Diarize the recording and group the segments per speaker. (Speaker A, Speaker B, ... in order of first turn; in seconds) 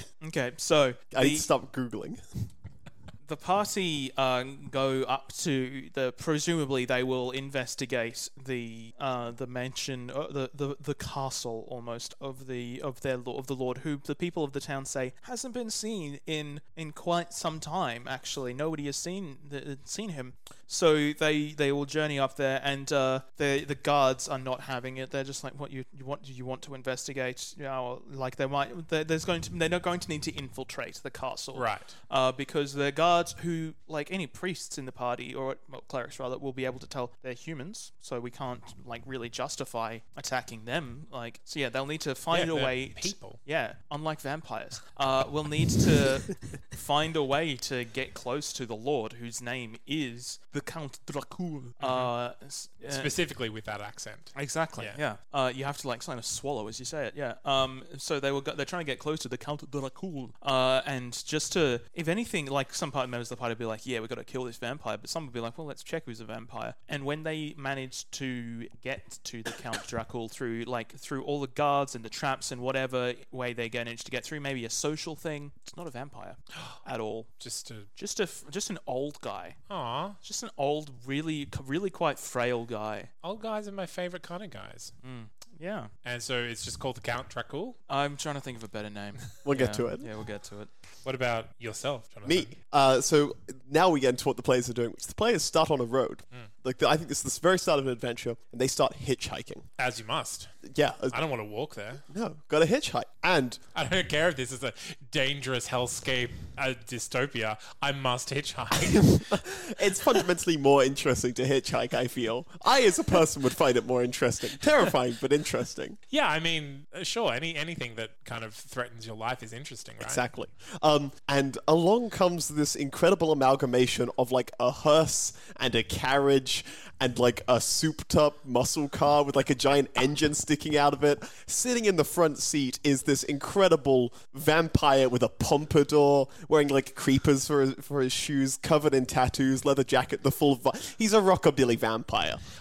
Speaker A: 0.2-1.5, 3.2-53.2, 54.4-77.3, 78.0-79.6, 80.2-83.1, 85.0-85.9, 87.9-90.7
Speaker B: 1.1-2.5, 89.4-90.1, 92.2-99.7, 100.6-101.2, 102.1-103.6, 108.9-116.0, 120.0-142.4
Speaker C: 31.6-31.9, 42.3-43.4, 51.8-52.1, 52.9-55.0, 77.4-77.9, 79.7-80.2, 83.2-84.9, 86.0-87.8, 91.0-92.5, 99.8-100.6, 101.1-102.0, 103.7-109.4, 116.1-120.2